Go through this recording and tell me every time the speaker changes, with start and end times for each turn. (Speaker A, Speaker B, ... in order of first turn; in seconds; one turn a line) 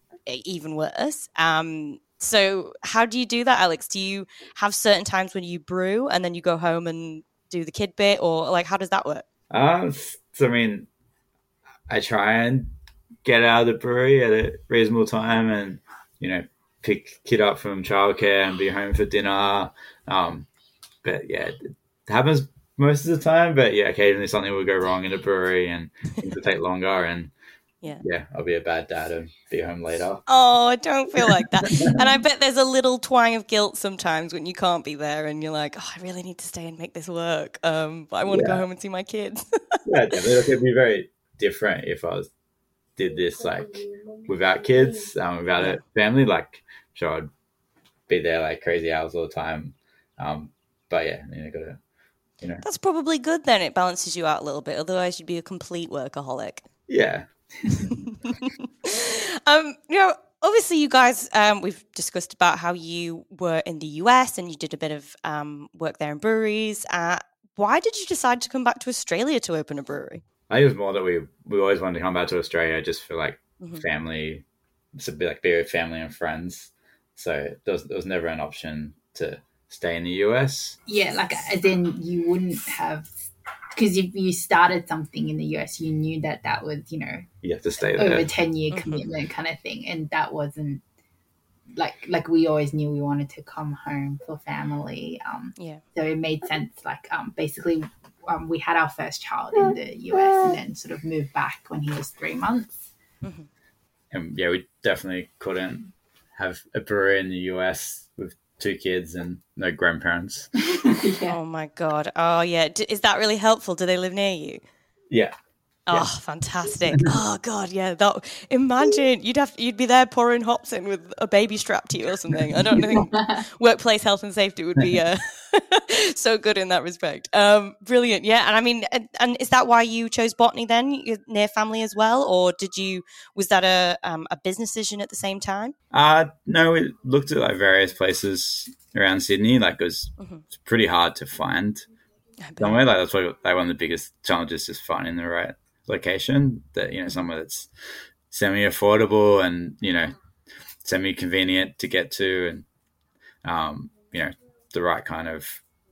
Speaker A: 0.2-9.2
Speaker B: 9.5-10.9
Speaker B: 11.9-12.7
Speaker B: 13.2-20.5
Speaker B: 21.0-27.3
Speaker B: 28.0-30.2
Speaker A: 30.3-39.8
Speaker B: 31.2-31.9
Speaker B: 38.3-38.6
Speaker B: 39.9-42.3
Speaker B: 43.0-47.3
Speaker B: 48.1-51.8
Speaker A: 52.6-56.6
Speaker B: 56.9-57.3
Speaker A: 57.7-70.2
Speaker B: 70.5-74.4
Speaker B: 75.0-80.8
Speaker C: 80.9-87.2
Speaker B: 87.4-88.3
Speaker C: 88.0-90.8
Speaker A: 88.7-89.0
Speaker C: 91.7-102.9
Speaker A: 95.6-95.8
Speaker A: 103.2-103.5
Speaker B: 104.1-110.5
Speaker C: 110.7-111.4
Speaker A: 111.3-114.6
Speaker A: 115.9-135.7
Speaker C: 122.9-123.4
Speaker B: 135.9-141.9
Speaker A: 142.4-142.8
Speaker B: 142.6-147.7
Speaker B: 148.3-150.2
Speaker B: 150.8-152.7
Speaker B: 153.4-155.6